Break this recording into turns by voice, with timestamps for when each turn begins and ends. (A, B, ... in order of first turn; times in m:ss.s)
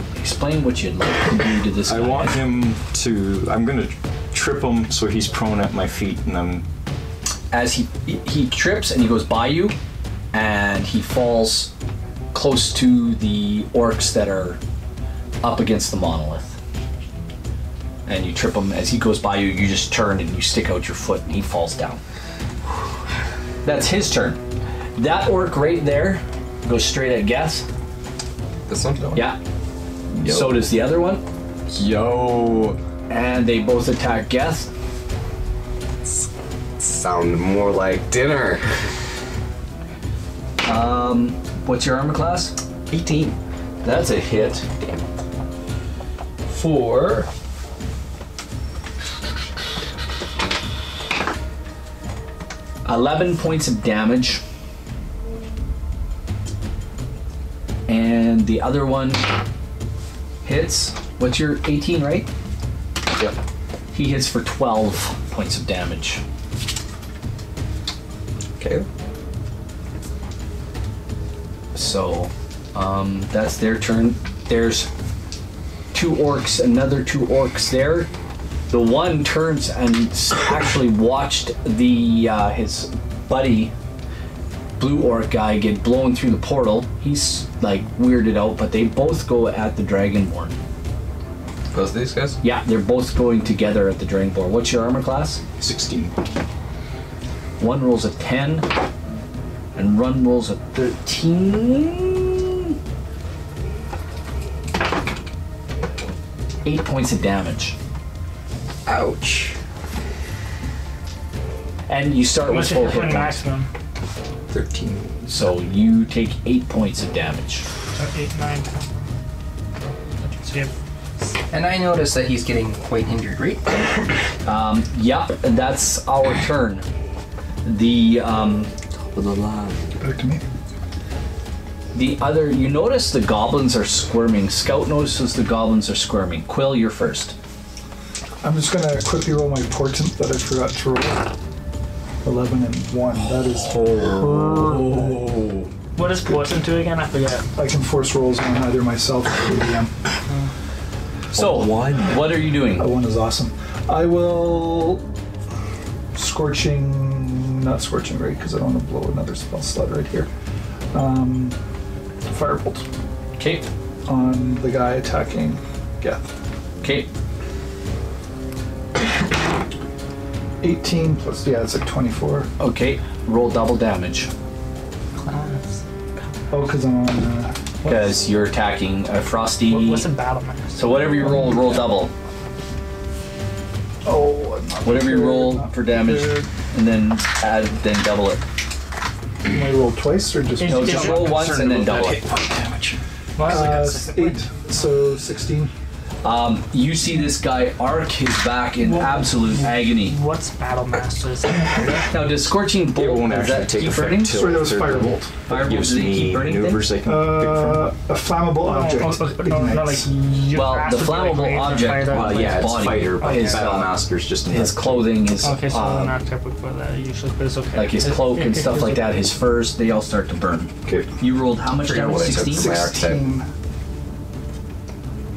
0:00.2-0:02.4 A
0:01.8-0:06.6 B
0:07.5-0:09.7 A
0:10.3-0:11.7 A
0:12.3-0:14.6 A
0:15.4-0:16.6 A
0:18.0-0:22.0 A
0:23.6-0:24.4 A
0:25.0-0:27.6 A
0:28.7-0:29.3 C
0:30.2-0:30.6 C
0:30.2-0:31.2 A
0:31.7-0:32.8 C
0:33.1-0:34.7 A
0:36.0-0:38.6 C
0:40.6-0:42.6 A
0:42.9-0:43.4 C
0:43.8-0:44.6 A
0:44.6-0:45.0 C
0:46.5-0:47.3 A
0:52.8-0:54.4 A
0:57.9-0:59.3 A
1:00.4-1:02.3 A
1:03.9-1:06.2 A
1:08.6-1:08.8 C
1:11.7-1:14.9 A
1:15.9-1:18.1 A
1:18.7-1:23.7 A
1:24.8-1:30.5 A
1:31.7-1:32.4 C
1:32.4-1:35.4 A
1:35.6-1:36.1 B
1:37.6-1:38.7 A
1:39.7-1:42.7 A
1:46.6-1:47.8 A
1:48.8-1:49.6 D
1:51.9-1:53.4 A
1:52.4-1:53.7 E
1:54.5-1:55.2 B
1:55.3-1:57.6 A
1:57.9-1:58.8 E
2:00.2-2:00.7 E
2:01.5-2:04.1 D
2:04.4-2:06.8 A
2:07.6-2:08.7 A
2:09.0-2:09.9 C
2:10.0-2:10.4 F
2:11.9-2:17.3 A
2:18.4-2:21.3 F
2:22.2-2:23.8 F
2:23.3-2:25.4 B
2:25.9-2:27.5 E
2:27.6-2:29.9 F
2:31.3-2:32.9 A
2:31.3-2:32.0 C
2:32.8-2:35.0 F
2:36.1-2:40.3 F
2:40.9-2:41.6 F
2:42.3-2:42.8 F
2:43.4-2:43.7 A
2:44.0-2:46.3 F
2:46.8-2:47.1 A
2:50.6-2:52.5 F
2:52.6-2:54.3 A
2:55.2-2:55.7 E
2:56.5-2:57.5 F
2:57.8-2:58.1 E
2:57.8-3:00.1 A
2:59.7-3:01.0 E
3:00.8-3:02.1 A
3:01.2-3:01.9 F
3:04.0-3:06.4 F
3:04.8-3:08.4 A
3:09.4-3:11.0 F
3:10.6-3:11.6 E
3:10.6-3:12.2 A
3:10.9-3:13.0 B
3:13.4-3:14.4 E
3:13.4-3:15.7 F
3:16.2-3:20.2 A
3:18.8-3:22.1 E
3:22.1-3:24.4 A
3:22.9-3:27.9 B
3:24.3-3:25.3 F
3:25.5-3:26.9 A
3:27.0-3:30.1 F
3:28.6-3:33.8 E
3:30.5-3:36.1 A
3:32.0-3:35.2 B
3:35.4-3:39.1 E
3:37.7-3:42.8 A
3:41.7-3:43.2 C
3:42.5-3:43.5 F